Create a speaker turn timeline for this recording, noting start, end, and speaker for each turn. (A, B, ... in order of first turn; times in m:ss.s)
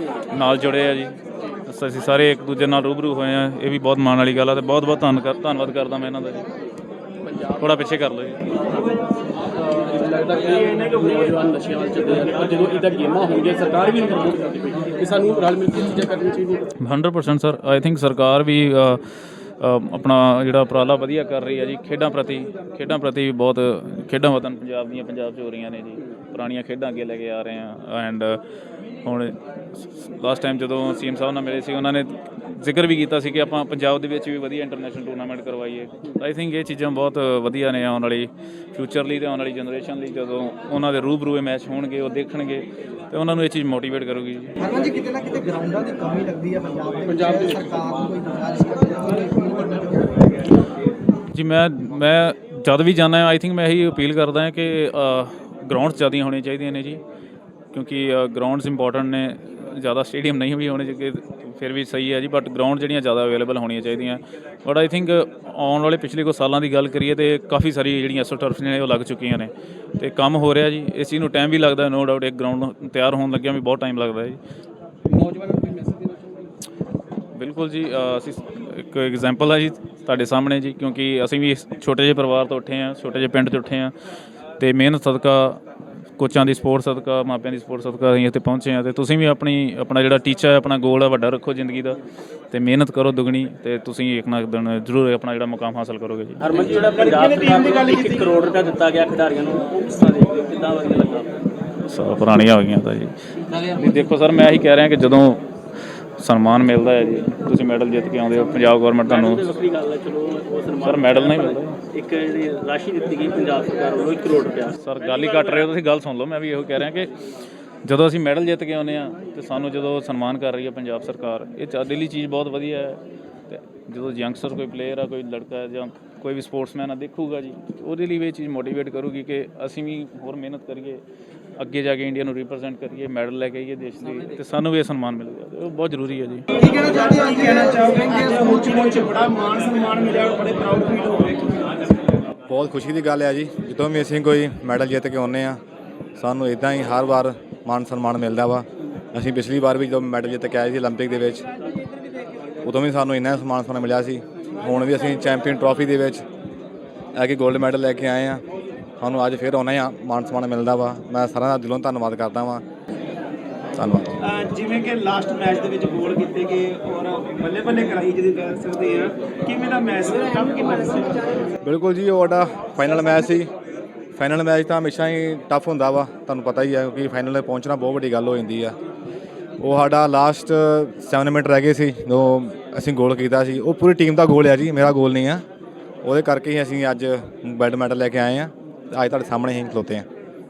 0:00.3-0:06.5 A
0:07.5-0:08.4 A
0:09.6-0:16.6 B
0:16.8-0:19.0 A
0:19.6-0:28.4 A
0:29.0-0:44.6 A
0:44.6-0:50.1 C
0:51.3-0:57.0 A
0:57.7-1:14.4 A
1:15.1-1:16.5 B
1:17.3-1:23.9 A
1:24.6-1:25.6 A
1:26.2-1:32.0 A
1:32.5-1:36.4 A
1:36.4-1:41.5 B
1:36.8-1:38.3 D
1:41.9-1:45.4 A
1:46.2-1:49.5 A
1:49.0-1:55.7 B
1:50.8-1:51.8 A
1:54.8-1:57.1 A
1:57.8-2:11.0 A
2:11.6-2:16.5 A
2:16.5-2:19.4 C
2:16.6-2:21.7 D
2:22.5-2:25.6 E
2:26.2-2:31.4 E
2:32.6-2:36.2 E
2:37.2-2:38.4 E
2:39.0-2:42.6 E
2:43.8-2:44.1 E
2:44.2-2:51.2 D
2:51.6-2:53.5 E
2:54.2-2:58.8 E
2:59.6-3:05.4 E
3:06.0-3:10.0 E